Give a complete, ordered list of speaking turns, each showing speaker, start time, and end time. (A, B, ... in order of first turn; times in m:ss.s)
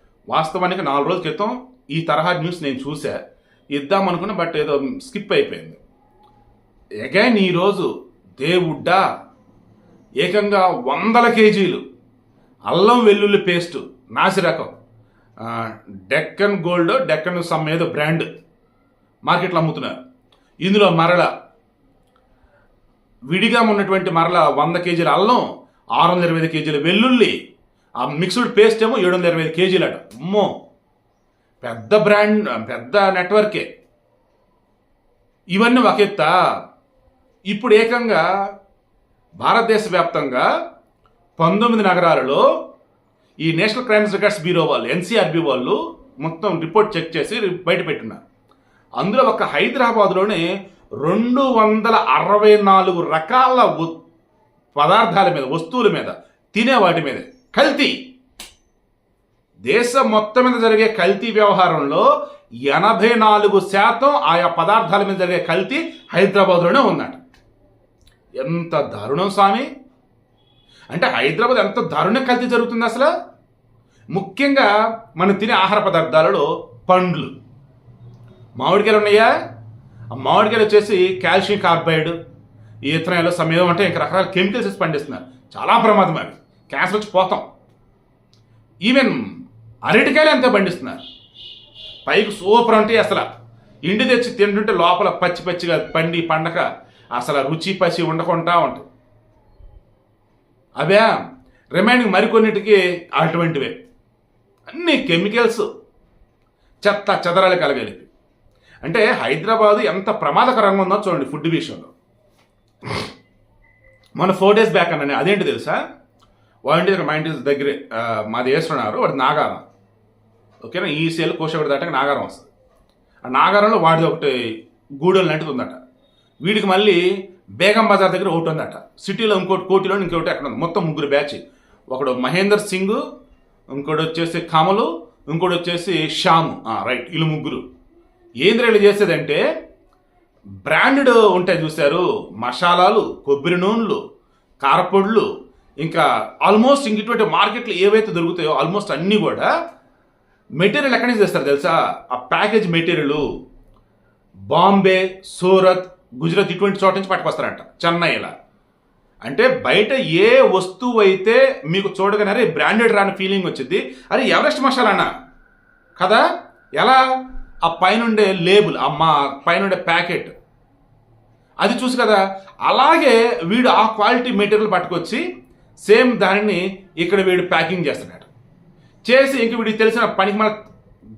0:00.3-0:03.2 A
0:03.7-0:05.8 A
0:07.0-0:09.0 A
0:10.2-0:11.8 A
0:12.7-0:14.7 A
0:15.4-0:18.3 A
0:19.2-0:20.0 A
0:20.6-0:21.3 A
0:23.3-0:25.4 A
0:26.0-0:27.3 A
0:28.0-0:30.5 A
0:31.6-0:33.7 A
0:35.5-0:36.3 A
0:37.5-0:38.2 A
0:39.4-0:40.5 A
0:41.4-0:42.4 A
0:43.4-0:48.2 A
0:49.0-0:50.4 A
0:51.0-0:54.0 A
0:54.7-0:58.0 A
0:59.7-1:02.1 A
1:02.6-1:07.2 A
1:08.4-1:09.7 A
1:10.9-1:13.1 A
1:14.1-1:17.3 A
1:18.6-1:19.3 A
1:20.2-1:22.1 A
1:22.9-1:27.4 A
1:28.8-1:31.0 A
1:32.1-1:33.3 A
1:33.8-1:38.9 A
1:40.8-1:41.2 A
1:41.8-1:43.7 A
1:44.7-1:45.7 A
1:46.8-1:48.1 A
1:48.8-1:51.9 A
1:54.2-1:55.8 A
1:56.6-1:59.6 A
2:00.6-2:02.5 A
2:03.2-2:04.4 A
2:05.0-2:05.8 A
2:06.4-2:07.0 A
2:07.6-2:13.0 A
2:13.7-2:17.6 A
2:18.4-2:19.4 A
2:20.6-2:24.0 A
2:24.6-2:25.3 A
2:25.8-2:29.5 A
2:30.6-2:33.2 A
2:34.5-2:38.3 A
2:39.2-2:45.1 A
2:46.0-2:46.2 A
2:47.6-2:50.3 A
2:51.6-2:55.2 A
2:55.8-2:58.3 A
2:59.0-3:00.6 A